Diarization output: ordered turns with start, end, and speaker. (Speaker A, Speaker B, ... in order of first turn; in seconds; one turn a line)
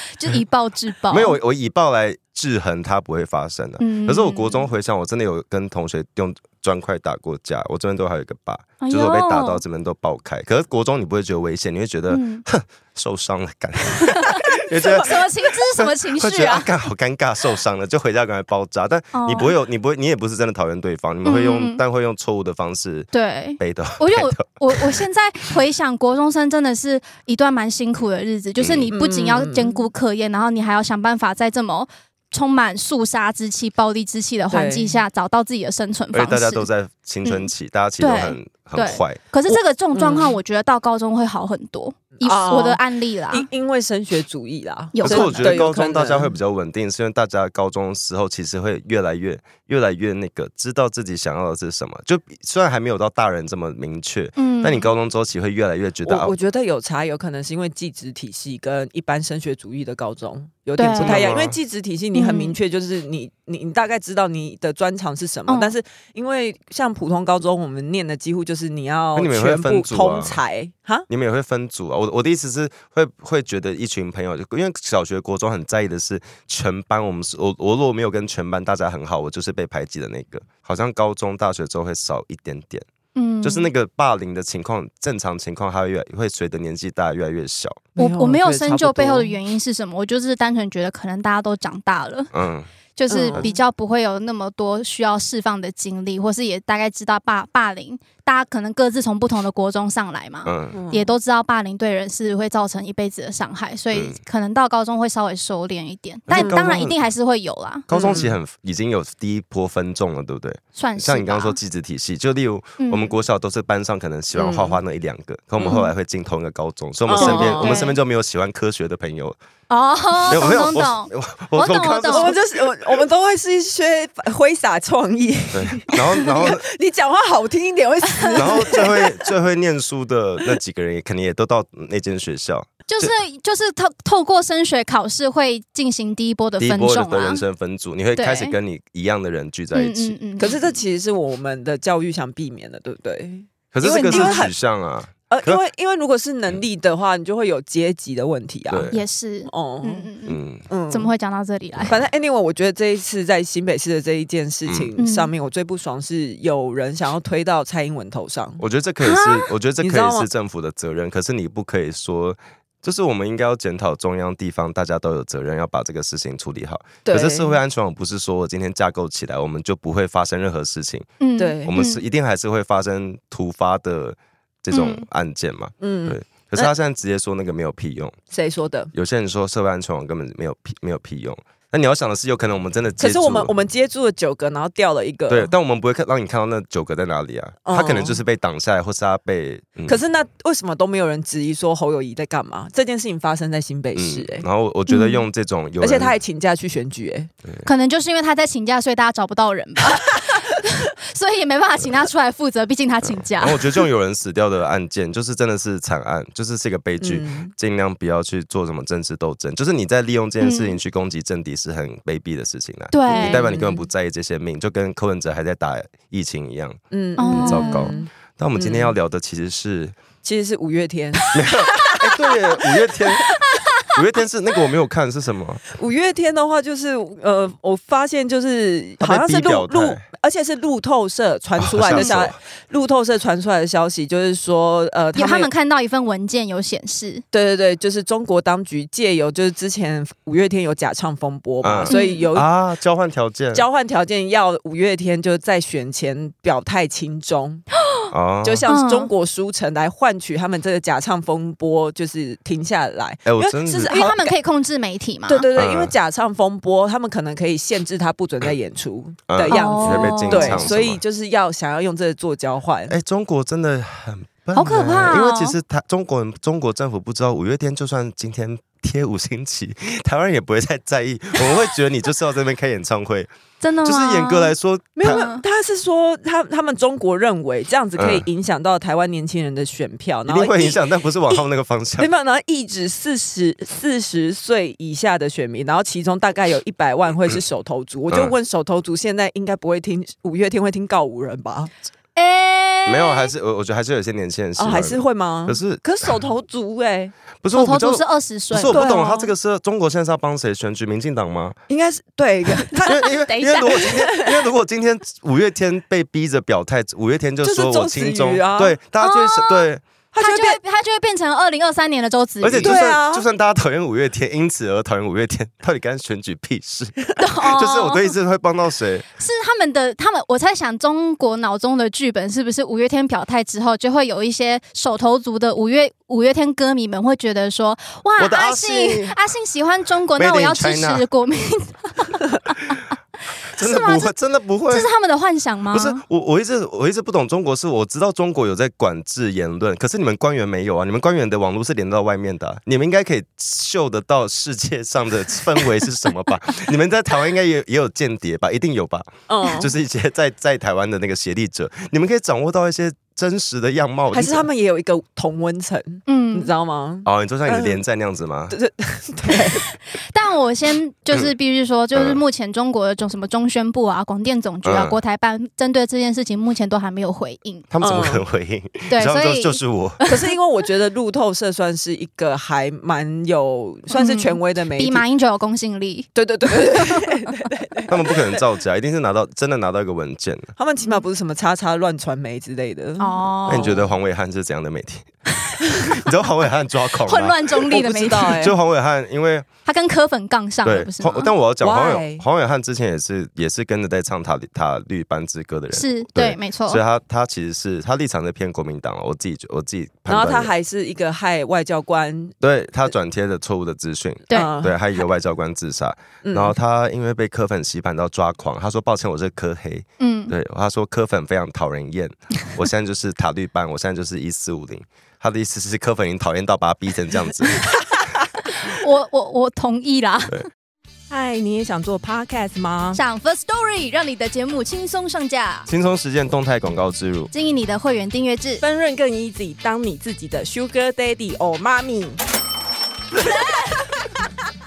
Speaker A: 0.1-1.4
Speaker B: 1.1-25.0
Speaker A: 3.8-4.7
Speaker A: 8.8-9.6
Speaker A: 12.1-12.4
Speaker A: 14.0-16.7
Speaker A: 19.1-19.6
Speaker A: 21.2-21.8
Speaker A: 23.1-36.7
Speaker B: 28.6-28.9
Speaker C: 28.9-29.9
Speaker C: 34.5-35.0
Speaker B: 36.1-39.2
Speaker A: 37.2-43.5
Speaker C: 39.9-40.4
Speaker C: 42.2-46.3
Speaker A: 44.9-45.6
Speaker B: 45.0-56.3
Speaker A: 54.4-54.9
Speaker C: 56.0-71.1
Speaker A: 60.8-61.3
Speaker B: 61.0-61.6
Speaker A: 62.1-62.6
Speaker A: 65.5-65.8
Speaker B: 69.2-70.4
Speaker B: 71.1-82.9
Speaker A: 83.2-83.7
Speaker B: 83.4-87.9
Speaker C: 88.0-89.4
Speaker A: 88.0-92.3
Speaker B: 92.3-92.7
Speaker A: 93.0-107.9
Speaker C: 93.1-93.5
Speaker B: 100.5-100.8
Speaker C: 100.7-101.1
Speaker B: 103.9-104.2
Speaker B: 106.3-107.0
Speaker C: 106.3-106.7
Speaker B: 107.9-119.4
Speaker C: 107.9-108.4
Speaker A: 110.8-111.6
Speaker A: 112.8-113.2
Speaker C: 114.3-114.8
Speaker C: 115.6-115.9
Speaker C: 117.1-117.9
Speaker A: 117.2-118.0
Speaker A: 119.7-122.3
Speaker B: 120.3-122.4
Speaker C: 122.1-129.2
Speaker B: 125.5-126.7
Speaker B: 128.3-133.1
Speaker A: 132.9-137.4
Speaker B: 136.6-140.2
Speaker A: 138.2-138.6
Speaker A: 139.7-140.7
Speaker C: 140.4-144.5
Speaker B: 143.7-145.6
Speaker A: 144.0-144.5
Speaker C: 145.3-148.9
Speaker B: 148.7-149.0
Speaker A: 148.9-150.4
Speaker C: 149.5-150.1
Speaker B: 150.3-150.7
Speaker C: 150.7-151.1
Speaker A: 150.9-152.0
Speaker C: 151.9-158.6
Speaker A: 155.0-155.3
Speaker B: 158.6-171.1
Speaker A: 159.0-159.5
Speaker C: 159.8-160.3
Speaker C: 167.1-167.6
Speaker A: 171.2-172.0
Speaker C: 171.4-171.8
Speaker B: 171.7-178.2
Speaker A: 174.7-175.1
Speaker C: 175.8-176.7
Speaker C: 178.3-178.9
Speaker B: 178.9-183.5
Speaker C: 183.0-185.5
Speaker B: 185.3-190.0
Speaker C: 187.7-188.2
Speaker C: 189.9-194.5
Speaker B: 193.9-196.2
Speaker A: 194.9-195.2
Speaker C: 195.8-197.3
Speaker A: 197.6-203.8
Speaker B: 203.0-216.8
Speaker C: 207.0-207.5
Speaker A: 210.4-210.8
Speaker A: 212.9-213.5
Speaker C: 213.1-213.9
Speaker C: 216.9-218.9
Speaker A: 217.2-218.0
Speaker B: 217.3-220.0
Speaker C: 220.2-221.9
Speaker B: 221.3-223.3
Speaker B: 223.9-225.6
Speaker C: 225.8-235.5
Speaker B: 229.0-230.0
Speaker B: 231.6-232.4
Speaker A: 231.9-232.2
Speaker A: 235.2-237.2
Speaker C: 237.3-242.5
Speaker B: 241.6-243.7
Speaker A: 241.9-242.2
Speaker C: 243.5-247.7
Speaker B: 248.1-248.7
Speaker C: 248.4-254.3
Speaker A: 248.7-249.1
Speaker B: 253.3-254.0
Speaker A: 253.9-255.5
Speaker C: 255.3-262.9
Speaker B: 255.6-255.9
Speaker B: 259.3-261.0
Speaker A: 259.5-260.7
Speaker B: 262.9-273.3
Speaker A: 264.5-265.6
Speaker A: 273.6-275.4
Speaker B: 273.8-275.3
Speaker C: 275.0-281.4
Speaker B: 278.0-278.3
Speaker B: 280.3-282.1
Speaker C: 282.0-291.7
Speaker A: 292.2-293.3
Speaker B: 292.9-295.8
Speaker C: 294.6-297.1
Speaker B: 297.4-301.6
Speaker A: 297.5-298.9
Speaker C: 298.6-299.3
Speaker C: 301.7-304.5
Speaker B: 302.9-309.8
Speaker A: 302.9-303.9
Speaker C: 307.4-308.8
Speaker A: 309.0-309.7
Speaker C: 310.1-310.6
Speaker A: 310.2-312.8
Speaker B: 312.4-319.1
Speaker C: 312.6-313.3
Speaker A: 317.2-318.1
Speaker A: 319.2-332.8
Speaker B: 328.2-329.1
Speaker B: 330.2-331.1
Speaker A: 333.6-334.1
Speaker B: 333.6-334.9
Speaker A: 334.7-336.0
Speaker B: 335.7-354.5
Speaker C: 349.3-349.7
Speaker C: 354.1-357.8
Speaker A: 356.1-356.5
Speaker B: 357.1-358.6
Speaker C: 358.5-359.6
Speaker A: 359.9-367.7
Speaker B: 361.9-362.2
Speaker B: 364.6-365.0
Speaker B: 367.7-370.0
Speaker C: 367.8-368.2
Speaker A: 368.9-370.3
Speaker C: 370.1-375.0
Speaker A: 373.9-376.1
Speaker C: 376.2-378.4
Speaker A: 376.7-377.1
Speaker B: 377.9-380.5
Speaker C: 380.6-383.8
Speaker A: 383.0-383.8
Speaker B: 383.5-385.1
Speaker B: 385.8-387.6
Speaker A: 387.0-388.4
Speaker C: 387.7-388.6
Speaker B: 388.3-389.5
Speaker A: 389.6-391.3
Speaker B: 390.6-400.5
Speaker C: 391.6-392.2
Speaker A: 395.7-396.8
Speaker C: 400.1-402.4
Speaker B: 402.4-417.7
Speaker C: 404.3-404.8
Speaker C: 406.2-406.6
Speaker A: 410.0-410.3
Speaker A: 418.5-420.5
Speaker C: 421.1-423.0
Speaker A: 422.9-425.7
Speaker B: 425.7-427.3
Speaker A: 427.3-428.6
Speaker C: 428.6-432.2